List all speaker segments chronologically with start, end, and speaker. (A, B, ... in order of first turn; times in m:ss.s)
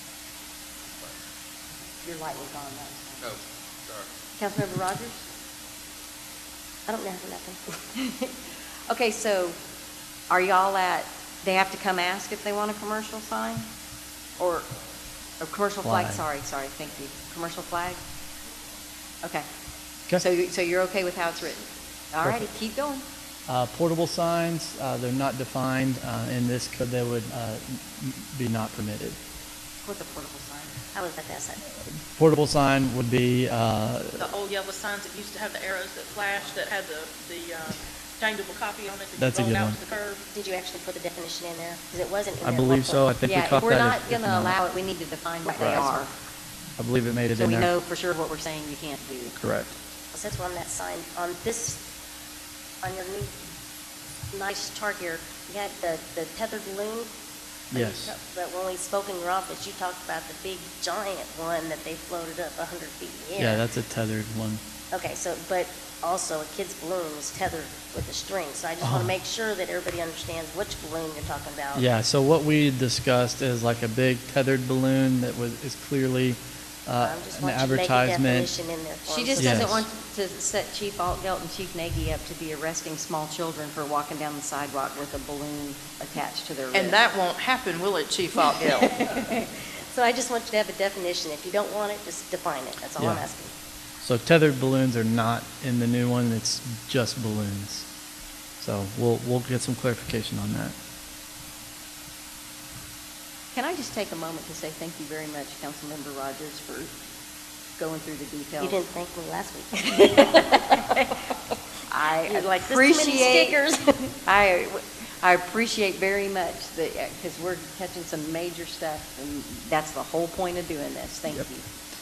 0:02.0-0:03.4 A
0:04.4-0:05.3 A
0:06.9-0:07.6 B
0:07.9-0:09.6 A
0:10.3-0:13.7 A
0:14.4-0:14.7 A
0:15.4-0:18.0 A
0:15.8-0:16.2 C
0:20.2-0:23.0 A
0:23.5-0:29.2 C
0:29.8-0:30.7 A
0:30.9-0:31.6 B
0:32.1-0:34.2 C
0:34.2-0:40.2 D
0:39.2-0:39.8 C
0:40.3-0:43.0 B
0:42.4-0:44.6 C
0:43.2-0:46.1 A
0:45.6-0:46.0 C
0:46.8-0:47.7 C
0:47.3-0:49.3 A
0:49.4-0:49.7 C
0:50.1-0:51.8 B
0:52.8-0:53.4 B
0:54.3-0:57.1 B
0:57.7-0:58.1 C
0:57.7-1:03.6 B
1:03.4-1:04.6 C
1:04.9-1:11.8 B
1:08.8-1:09.1 C
1:11.7-1:18.5 C
1:17.0-1:19.8 B
1:19.1-1:27.0 A
1:19.4-1:19.8 C
1:26.7-1:29.0 D
1:28.6-1:29.2 A
1:29.1-1:33.5 B
1:33.0-1:33.2 C
1:34.0-1:37.9 C
1:38.6-1:40.7 C
1:43.5-1:46.9 A
1:47.8-1:48.8 A
1:48.6-1:50.9 B
1:49.9-1:51.1 A
1:51.9-1:53.6 A
1:52.3-1:53.8 B
1:54.2-2:01.7 A